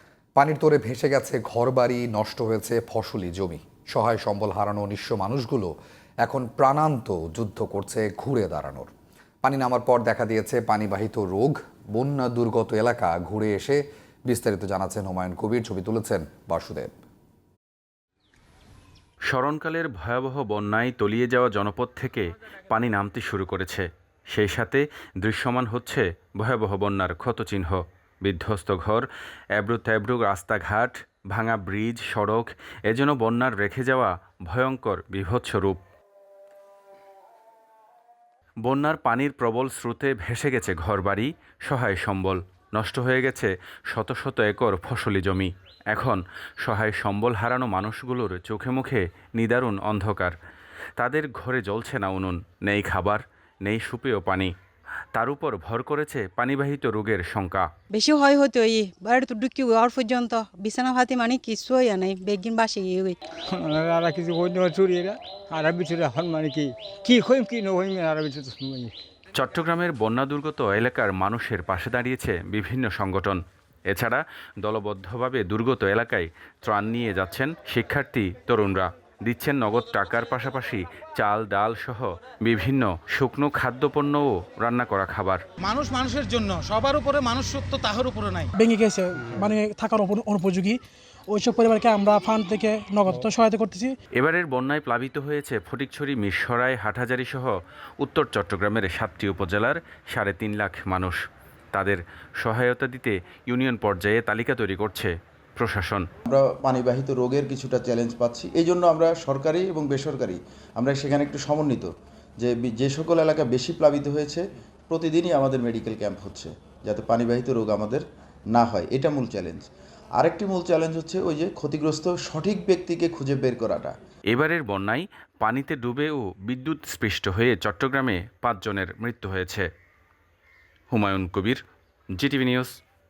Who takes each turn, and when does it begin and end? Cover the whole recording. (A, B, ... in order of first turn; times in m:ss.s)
0:00.4-0:05.7 A
0:06.2-0:08.9 A
0:09.4-0:16.9 A
0:19.3-0:35.8 B
0:38.6-0:50.3 B
0:51.0-0:54.5 B
0:55.1-0:57.7 B
0:57.9-1:03.2 C
1:03.5-1:08.9 D
1:09.4-1:25.4 B
1:25.6-1:28.5 E
1:28.5-1:33.9 F
1:34.2-1:41.2 B
1:41.7-1:46.0 B
1:46.3-2:03.9 G
2:04.3-2:09.6 B
2:10.9-2:11.6 B
2:12.2-2:12.8 B